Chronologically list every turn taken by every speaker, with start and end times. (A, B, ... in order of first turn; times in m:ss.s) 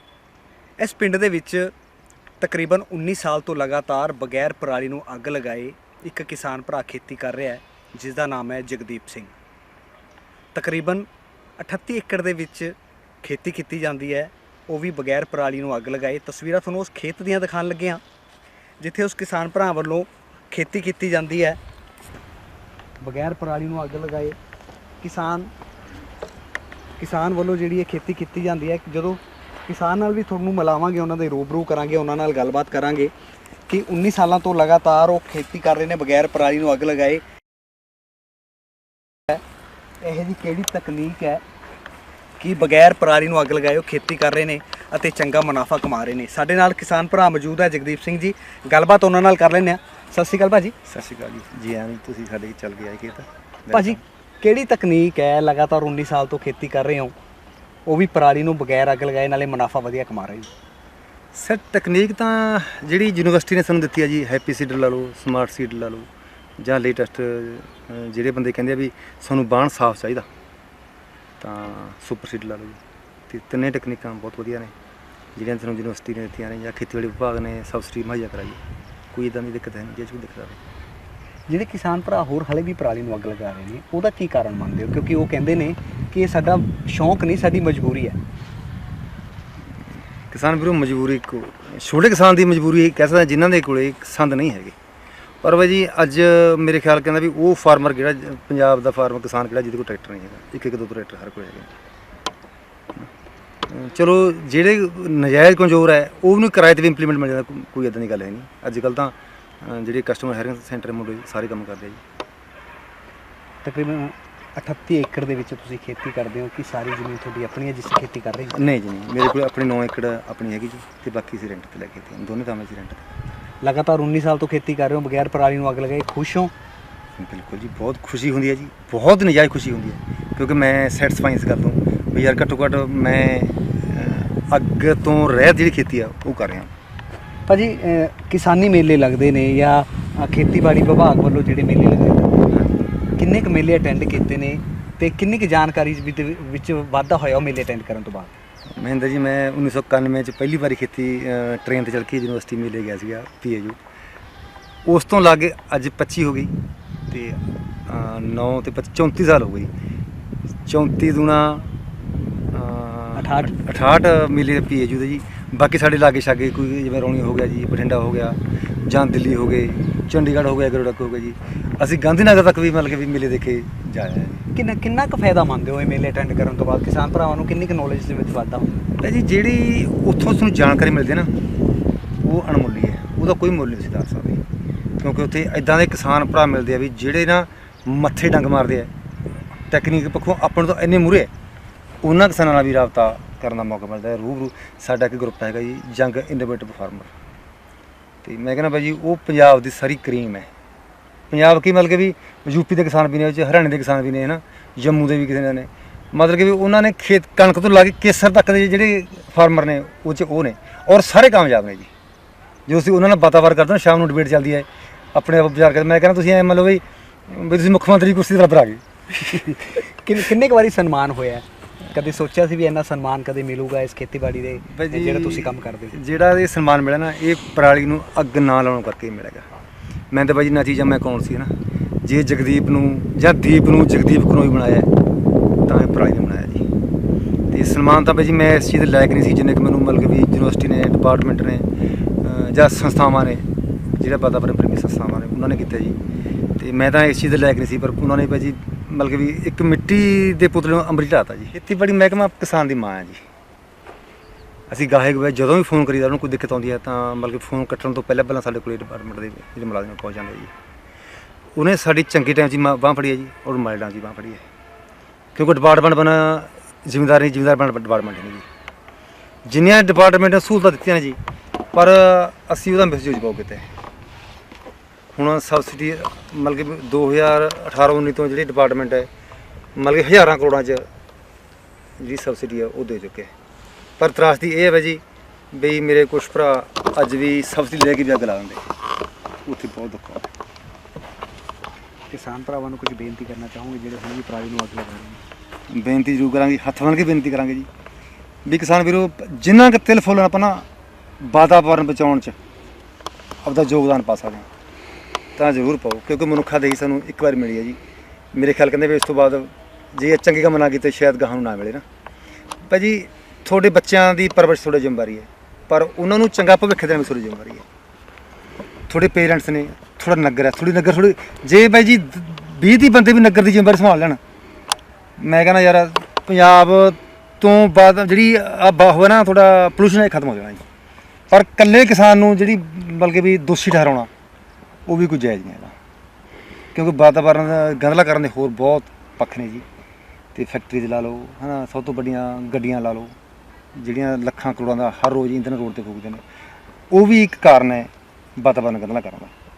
0:00.8-0:01.7 A
0:02.4-0:09.3 A
0:10.5-0:18.0 A
0:18.8-0:21.6 A
0:23.0-0:24.4 A
0:25.0-0:25.5 A
0:27.0-0:33.1 A
0:33.7-0:37.2 A
0:40.0-0:41.4 A
0:42.4-0:50.7 A
0:50.9-0:54.0 B
0:53.7-0:57.1 A
0:57.8-1:00.5 A
1:01.3-1:06.1 B
1:06.6-1:10.2 B
1:11.4-1:12.8 B
1:13.3-1:14.7 B
1:15.3-1:18.6 B
1:19.1-1:20.6 B
1:21.5-1:28.2 A
1:30.3-1:34.7 B
1:35.4-1:41.7 B
1:43.7-1:52.0 B
1:53.6-1:58.6 A
1:58.5-2:03.1 B
2:03.6-2:06.5 A
2:07.2-2:16.7 B
2:17.5-2:22.4 A
2:22.5-2:22.8 B
2:23.2-2:28.3 A
2:28.8-2:33.8 B
2:34.8-2:36.5 B
2:37.1-2:39.7 B
2:40.7-2:41.7 B
2:42.5-2:54.4 B
2:43.2-2:43.5 A
2:54.5-2:58.9 A
2:59.0-3:01.3 B
3:02.2-3:04.4 B
3:05.0-3:08.9 B
3:09.7-3:11.3 B
3:12.0-3:17.1 B
3:18.2-3:20.5 B
3:21.3-3:31.9 B
3:32.7-3:38.8 B
3:39.2-3:46.0 A
3:44.7-3:49.4 B
3:50.1-3:51.5 B
3:52.0-3:54.9 B
3:55.6-3:56.6 B
3:57.5-4:01.7 B
4:02.2-4:03.4 B
4:04.0-4:06.0 B
4:06.6-4:13.2 B
4:14.7-4:20.5 B
4:21.6-4:24.4 B
4:25.3-4:28.4 B
4:29.4-4:31.2 B
4:31.7-4:33.6 B
4:35.1-4:39.1 B
4:39.8-4:40.8 B
4:42.0-4:43.3 B
4:44.0-4:45.0 B
4:45.5-4:48.6 B
4:49.4-4:50.3 B
4:52.1-4:55.2 A
4:55.7-4:57.7 B
4:58.4-5:00.6 B
5:01.2-5:02.4 B
5:03.4-5:04.4 B
5:05.4-5:07.8 B
5:08.3-5:11.8 B
5:12.7-5:17.6 B
5:18.9-5:24.2 B
5:25.2-5:30.6 B
5:31.3-5:34.1 B
5:34.9-5:35.7 B
5:36.7-5:39.6 B
5:40.3-5:43.1 B
5:43.8-5:46.2 B
5:46.9-5:49.3 B